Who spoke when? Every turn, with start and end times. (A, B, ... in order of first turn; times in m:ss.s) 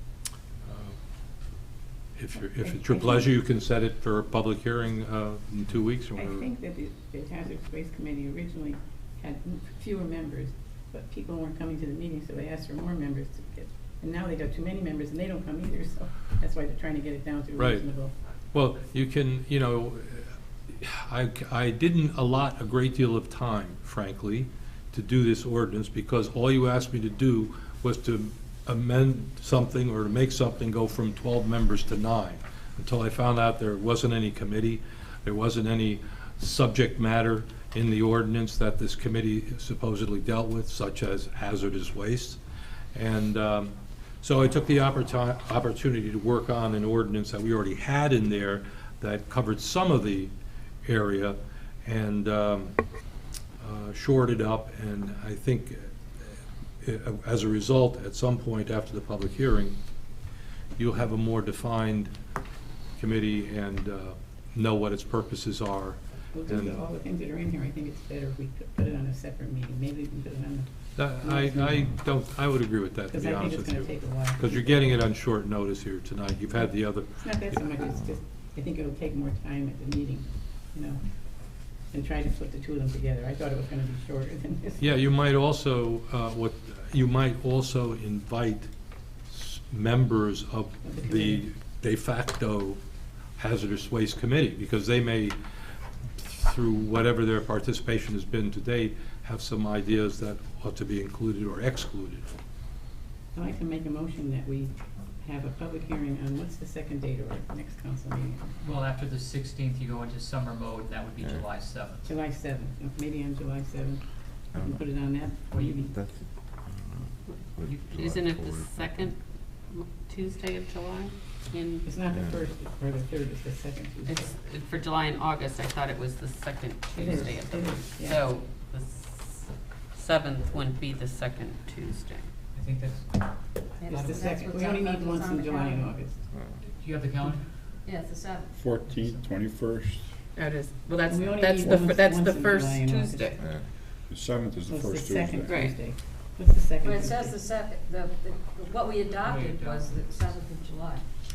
0:00.6-0:01.0 A
0:02.2-0:06.4 A
0:02.6-0:03.3 B
0:06.2-0:18.1 B
0:17.6-0:17.9 A
0:18.5-0:42.4 A
0:42.9-0:50.3 A
0:50.8-0:52.8 A
0:53.6-0:56.0 A
0:56.8-0:59.8 A
1:00.8-1:02.1 A
1:03.0-1:06.8 A
1:06.3-1:11.8 B
1:11.0-1:17.7 A
1:13.1-1:14.9 B
1:17.1-1:25.0 B
1:24.8-1:28.7 A
1:29.3-1:32.8 A
1:30.8-1:31.4 B
1:33.4-1:35.4 A
1:36.2-1:42.3 A
1:43.3-1:48.6 B
1:48.6-1:52.2 C
1:52.1-1:55.9 B
1:54.5-1:54.8 D
1:55.5-1:55.9 C
1:55.7-1:59.1 D
1:57.3-2:01.9 E
2:01.8-2:04.4 B
2:02.1-2:02.4 D
2:04.1-2:12.3 E
2:06.9-2:08.3 B
2:12.5-2:14.2 C
2:13.8-2:16.0 F
2:13.9-2:16.2 B
2:16.8-2:17.5 C
2:17.8-2:18.6 F
2:18.5-2:20.2 G
2:18.8-2:19.3 C
2:20.4-2:23.6 E
2:21.0-2:23.4 B
2:24.1-2:25.7 G
2:24.7-2:27.4 B
2:25.5-2:25.8 E
2:26.8-2:31.0 F
2:29.2-2:30.3 C